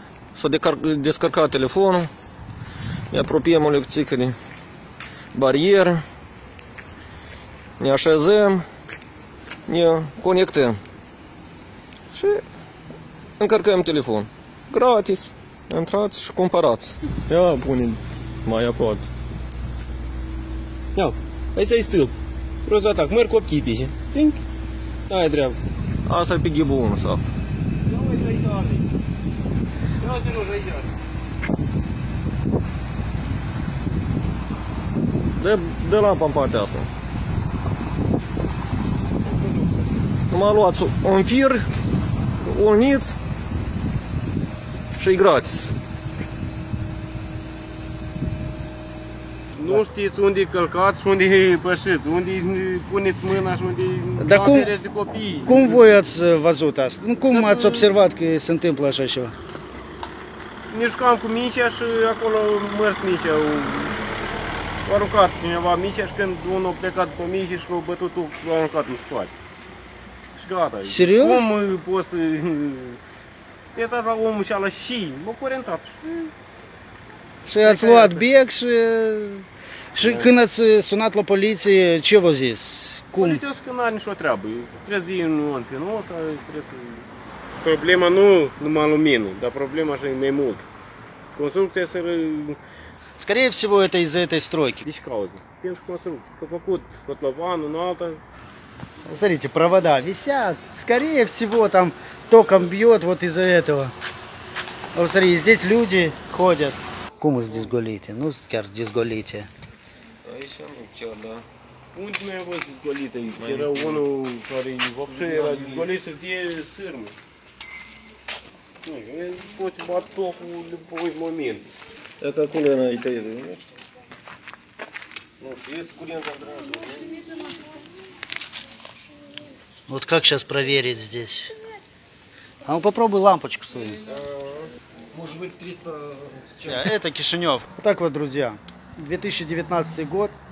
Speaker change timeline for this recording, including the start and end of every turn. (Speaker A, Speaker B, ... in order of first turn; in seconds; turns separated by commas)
Speaker A: 0.3-2.1, Speaker A: 3.1-4.3, Speaker A: 5.3-6.0, Speaker A: 7.8-8.6, Speaker A: 9.7-10.8, Speaker A: 12.1-12.4, Speaker A: 13.4-19.1, Speaker B: 20.9-22.1, Speaker B: 22.6-24.4, Speaker B: 25.1-25.6, Speaker A: 26.1-27.2, Speaker B: 27.8-28.9, Speaker B: 30.0-30.9, Speaker A: 35.4-36.9, Speaker B: 39.2-39.7, Speaker A: 40.3-41.6, Speaker A: 42.4-43.2, Speaker A: 44.9-45.8, Speaker B: 49.5-55.8, Speaker C: 54.2-54.7, Speaker C: 55.5-59.3, Speaker B: 57.3-57.9, Speaker B: 60.7-64.0, Speaker B: 64.8-69.3, Speaker B: 70.3-73.0, Speaker C: 70.8-71.4, Speaker B: 73.7-76.3, Speaker C: 77.5-83.4, Speaker B: 77.6-78.3, Speaker B: 80.0-80.3, Speaker B: 83.2-87.1, Speaker B: 87.6-90.7, Speaker B: 91.3-92.6, Speaker C: 93.2-94.8, Speaker B: 94.8-98.2, Speaker C: 99.0-103.9, Speaker C: 104.9-109.5, Speaker A: 110.2-111.4, Speaker B: 111.9-117.1, Speaker A: 113.3-114.0, Speaker A: 115.1-115.9, Speaker B: 118.8-121.7, Speaker A: 122.2-123.7, Speaker A: 125.4-127.2, Speaker C: 129.9-131.5, Speaker C: 132.6-134.0, Speaker A: 134.0-136.9, Speaker C: 136.6-140.3